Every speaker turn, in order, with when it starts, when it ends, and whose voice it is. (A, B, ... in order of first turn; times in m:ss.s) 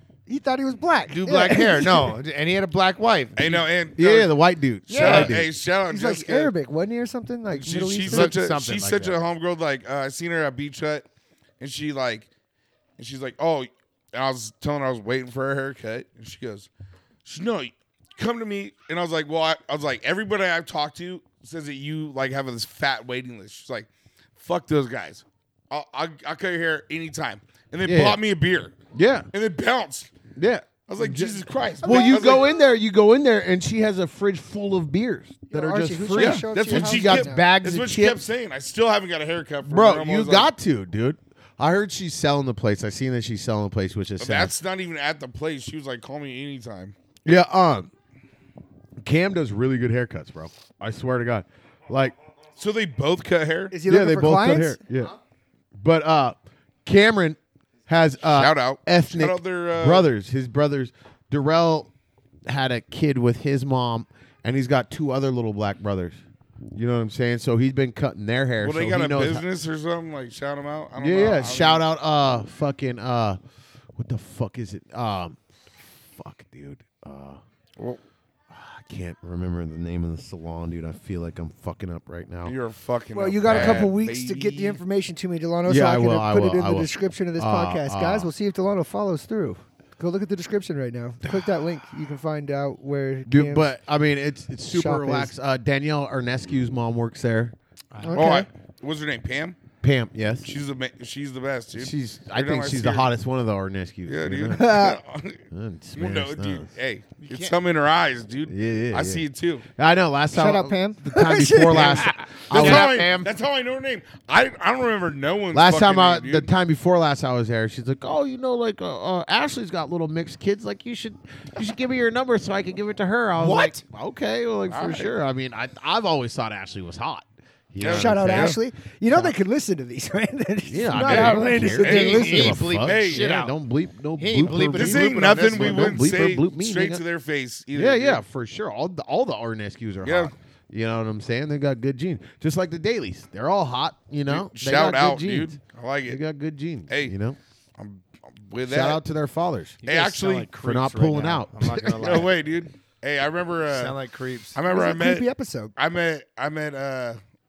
0:00.3-0:02.1 A
0:01.1-0:03.6 B
0:03.4-0:04.3 C
0:04.0-0:05.5 D
0:04.9-0:05.3 B
0:04.9-0:06.5 C
0:05.9-0:08.3 A
0:07.6-0:11.0 C
0:08.1-0:09.1 B
0:08.8-0:09.1 D
0:11.6-0:12.3 C
0:13.0-0:16.7 C
0:17.2-0:23.9 C
0:24.4-0:28.8 C
0:27.8-0:28.2 D
0:28.9-0:29.3 D
0:29.3-0:30.1 C
0:30.4-0:38.2 D
0:30.9-0:32.5 C
0:31.8-0:32.3 A
0:35.5-0:37.4 A
0:36.1-0:40.5 C
0:39.6-0:44.5 D
0:44.2-0:46.9 C
0:47.2-0:47.9 D
0:49.0-0:52.1 D
0:52.6-0:53.7 C
0:53.7-0:54.8 A
0:53.8-0:55.1 D
0:55.8-1:01.9 D
0:58.3-1:00.1 C
1:02.4-1:06.2 D
1:06.7-1:09.4 D
1:08.6-1:11.8 C
1:11.0-1:13.4 D
1:13.9-1:17.4 D
1:18.5-1:22.6 D
1:22.4-1:24.8 C
1:23.1-1:33.7 A
1:23.4-1:23.9 D
1:25.7-1:28.3 D
1:33.3-1:37.5 D
1:34.7-1:35.3 A
1:38.0-1:38.5 A
1:38.1-1:39.6 C
1:39.8-1:40.5 D
1:40.4-1:43.1 C
1:41.8-1:44.8 D
1:44.1-1:45.4 C
1:44.6-1:45.0 A
1:45.5-1:46.7 D
1:46.0-1:49.6 C
1:47.2-1:47.5 B
1:48.5-1:49.2 D
1:49.8-1:53.1 D
1:50.3-1:52.0 A
1:51.7-1:53.3 B
1:52.5-1:56.5 C
1:55.5-2:09.3 D
2:03.4-2:03.8 B
2:04.7-2:05.1 C
2:07.8-2:08.6 C
2:07.8-2:12.6 A
2:10.7-2:17.0 D
2:11.0-2:13.5 B
2:11.8-2:13.3 C
2:14.2-2:16.0 B
2:14.7-2:18.2 C
2:17.7-2:27.4 D
2:20.0-2:20.3 C
2:24.3-2:26.2 C
2:26.9-2:27.1 C
2:27.8-2:29.0 C
2:28.7-2:29.8 D
2:29.8-2:30.5 C
2:29.8-2:32.3 B
2:30.6-2:32.2 D
2:32.0-2:34.0 C
2:33.7-2:34.6 B
2:34.5-2:37.2 C
2:34.7-2:35.7 A